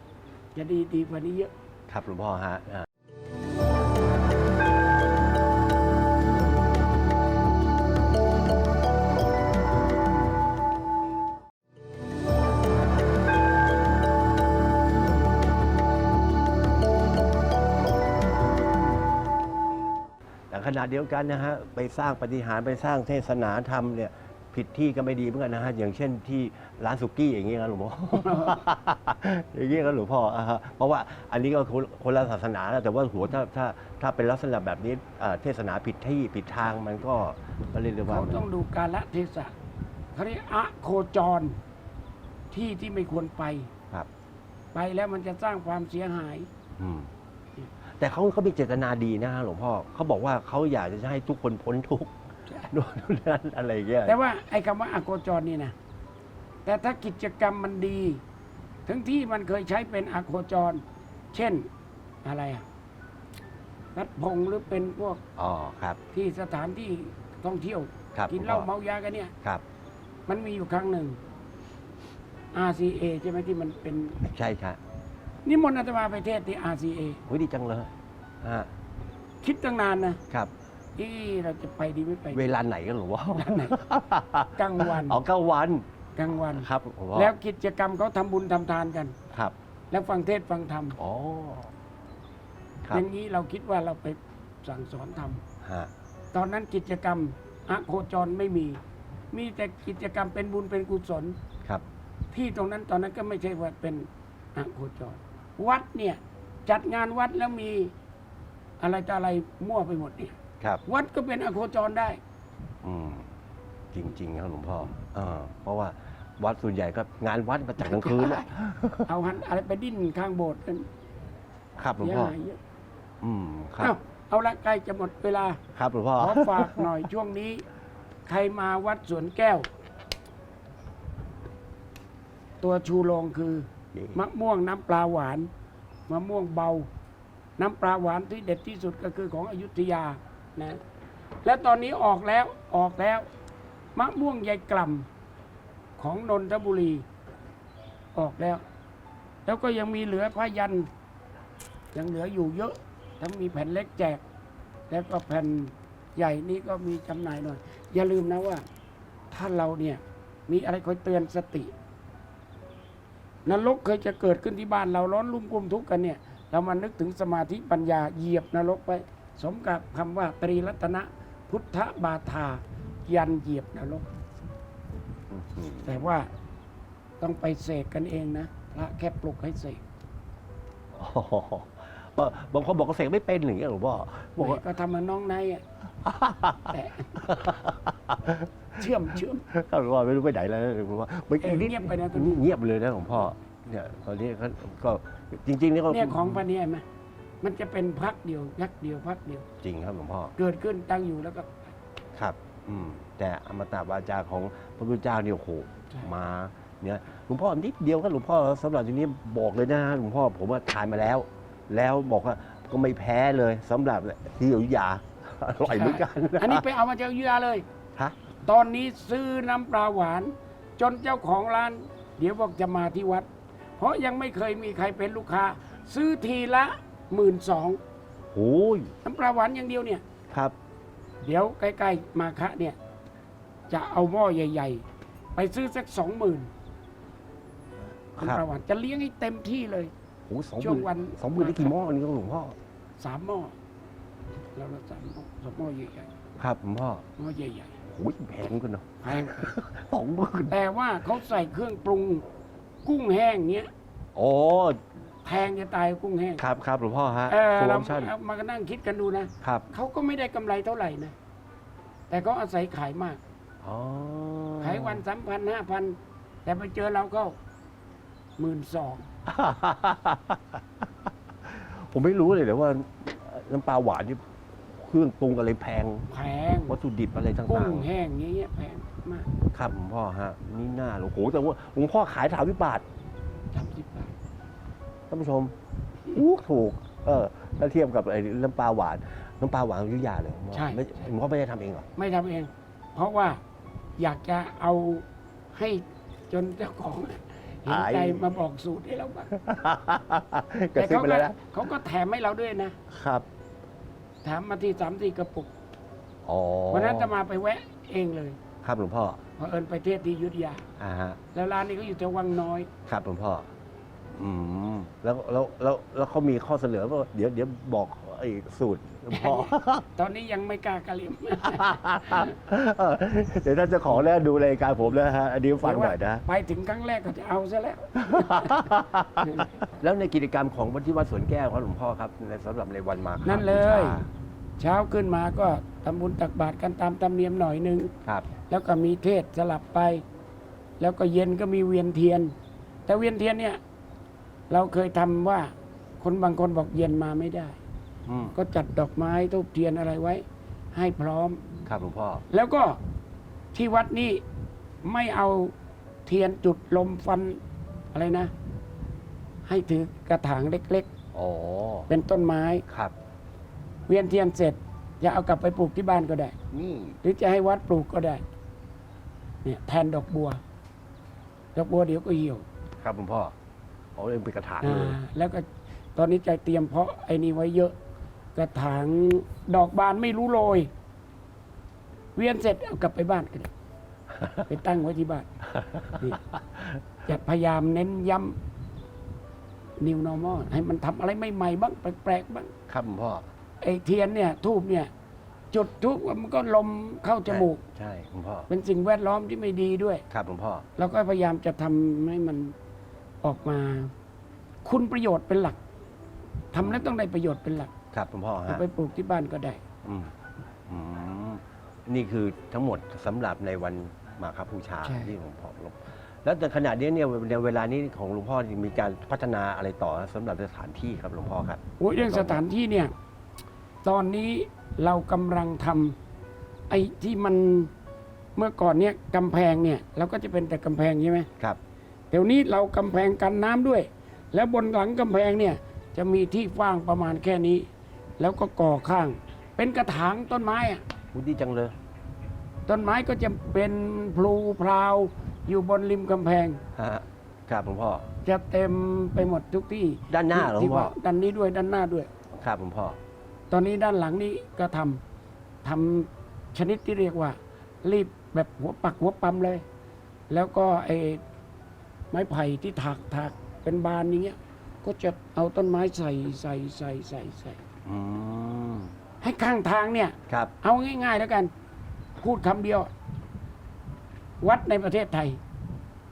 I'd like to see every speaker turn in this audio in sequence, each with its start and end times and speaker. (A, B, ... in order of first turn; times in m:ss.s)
0:00.5-0:01.5 A
0:01.9-0:02.9 B
0:20.5-0:38.4 B
0:28.2-0:28.6 A
0:38.1-0:39.5 A
0:40.1-0:41.6 A
0:42.5-0:43.7 A
0:44.7-0:46.5 A
0:46.8-0:47.1 B
0:48.0-0:54.2 B
0:54.0-0:55.8 A
0:56.6-0:58.2 A
0:58.8-1:01.7 A
1:02.2-1:02.7 A
1:03.9-1:05.2 A
1:05.4-1:06.0 B
1:06.1-1:09.3 A
1:08.1-1:08.7 B
1:10.3-1:11.2 A
1:12.5-1:14.2 A
1:14.2-1:14.8 B
1:15.4-1:17.2 A
1:17.3-1:18.7 B
1:19.4-1:20.2 A
1:21.0-1:22.5 A
1:22.3-1:25.8 B
1:23.3-1:23.8 A
1:24.5-1:25.2 A
1:26.2-1:29.2 A
1:26.4-1:27.3 B
1:29.9-1:31.0 A
1:31.0-1:31.7 B
1:32.9-1:35.4 A
1:35.6-1:35.9 B
1:36.3-1:38.8 A
1:39.3-1:41.4 A
1:42.3-1:47.9 A
1:48.8-1:52.2 A
1:52.8-1:53.3 B
1:53.9-1:59.1 B
1:57.8-1:58.5 A
1:59.0-2:00.9 A
2:01.8-2:02.3 B
2:02.0-2:02.6 A
2:03.2-2:04.0 B
2:03.8-2:05.6 A
2:05.8-2:06.9 B
2:06.2-2:07.7 A
2:08.3-2:09.7 A
2:12.6-2:15.5 A
2:13.9-2:14.2 B
2:16.1-2:16.9 A
2:17.6-2:20.8 A
2:21.4-2:23.3 A
2:24.0-2:25.1 A
2:26.0-2:27.1 A
2:28.2-2:28.6 A
2:29.4-2:30.9 A
2:31.9-2:34.2 A
2:34.9-2:38.6 A
2:39.3-2:41.7 A
2:43.4-2:54.1 A
2:55.3-2:56.1 B
2:55.8-2:56.3 A
2:57.2-2:59.8 A
3:00.9-3:04.7 B
3:04.4-3:05.6 A
3:06.0-3:08.9 B
3:06.6-3:07.4 A
3:08.8-3:09.4 A
3:09.5-3:16.4 B
3:11.4-3:12.5 A
3:15.9-3:16.8 A
3:17.4-3:19.5 A
3:19.6-3:20.3 B
3:20.4-3:21.6 A
3:22.2-3:36.6 B
3:35.7-3:37.7 A
3:38.4-3:47.8 A
3:48.3-3:48.9 B
3:49.0-3:50.0 A
3:51.2-3:52.8 A
3:53.7-3:54.8 A
3:55.4-3:56.5 A
3:58.2-3:58.4 B
3:58.2-3:59.9 A
4:00.3-4:02.6 B
4:00.6-4:01.8 A
4:03.0-4:03.6 A
4:04.6-4:06.1 A
4:06.4-4:07.0 B
4:07.2-4:07.8 A
4:07.8-4:10.6 B
4:09.0-4:09.5 A
4:10.5-4:12.2 A
4:12.8-4:13.7 A
4:14.2-4:14.8 B
4:15.2-4:16.4 A
4:16.4-4:18.1 B
4:17.3-4:21.2 A
4:19.4-4:19.7 B
4:22.1-4:23.2 A
4:23.6-4:25.0 B
4:24.6-4:27.4 A
4:28.4-4:29.1 A
4:29.3-4:30.6 B
4:31.4-4:36.1 B
4:36.1-4:36.8 A
4:36.7-4:37.9 B
4:37.5-4:39.3 A
4:39.5-4:42.8 B
4:43.5-4:44.2 A
4:45.1-4:45.5 B
4:46.1-4:51.9 B
4:50.5-4:50.8 A
4:52.0-4:53.4 A
4:54.0-4:59.3 A
4:57.7-4:58.3 B
4:59.3-5:01.5 B
5:00.8-5:02.8 A
5:02.9-5:03.3 B
5:04.2-5:05.5 A
5:06.2-5:07.1 B
5:06.7-5:08.4 A
5:08.6-5:09.2 B
5:09.4-5:10.7 A
5:10.8-5:11.2 B
5:11.3-5:12.7 A
5:12.9-5:13.5 B
5:14.1-5:19.9 B
5:19.1-5:22.3 A
5:21.4-5:26.2 B
5:25.6-5:29.5 A
5:28.0-5:34.1 B
5:33.2-5:34.0 A
5:34.6-5:37.9 A
5:38.5-5:40.0 A
5:40.8-5:42.4 A
5:42.9-5:43.6 A
5:44.5-5:47.6 A
5:48.1-5:48.4 B
5:48.4-5:51.4 A
5:51.7-5:52.2 B
5:52.3-5:52.8 A
5:53.5-5:54.2 A
5:54.8-5:55.6 A
5:56.1-5:57.4 A
5:57.9-5:58.3 A
5:59.5-6:00.9 A
6:01.1-6:01.9 B
6:01.9-6:02.6 A
6:02.7-6:02.9 B
6:03.9-6:06.4 A
6:06.5-6:07.0 B
6:07.0-6:08.2 A
6:09.4-6:10.4 A
6:11.6-6:12.5 A
6:12.8-6:13.3 B
6:14.0-6:15.0 B
6:14.6-6:17.8 A
6:18.4-6:20.7 A
6:22.2-6:23.5 A
6:24.3-6:25.3 A
6:27.0-6:28.4 A
6:29.8-6:32.5 A
6:32.7-6:33.3 B
6:33.6-6:34.9 A
6:35.5-6:37.6 A
6:37.3-6:38.5 B
6:38.5-6:40.0 A
6:40.1-6:40.7 B
6:40.8-6:42.6 A
6:43.2-6:43.9 A
6:44.6-6:45.6 A
6:46.5-6:47.7 A
6:47.9-6:48.6 B
6:48.5-6:49.6 A
6:49.8-6:50.1 B
6:50.7-7:02.4 B
6:54.8-6:55.1 A
7:01.8-7:02.9 A
7:03.8-7:06.0 A
7:06.7-7:07.7 A
7:08.4-7:11.3 A
7:12.1-7:17.7 A
7:18.2-7:20.8 A
7:21.1-7:21.8 B
7:22.7-7:26.6 A
7:26.8-7:28.1 B
7:28.2-7:32.1 A
7:30.1-7:30.9 B
7:32.4-7:33.0 B
7:33.5-7:35.0 A
7:35.6-7:39.6 A
7:40.3-7:41.2 A
7:42.1-7:47.6 A
7:47.8-7:48.9 B
7:49.2-7:51.5 A
7:52.2-7:52.9 A
7:54.4-7:55.4 A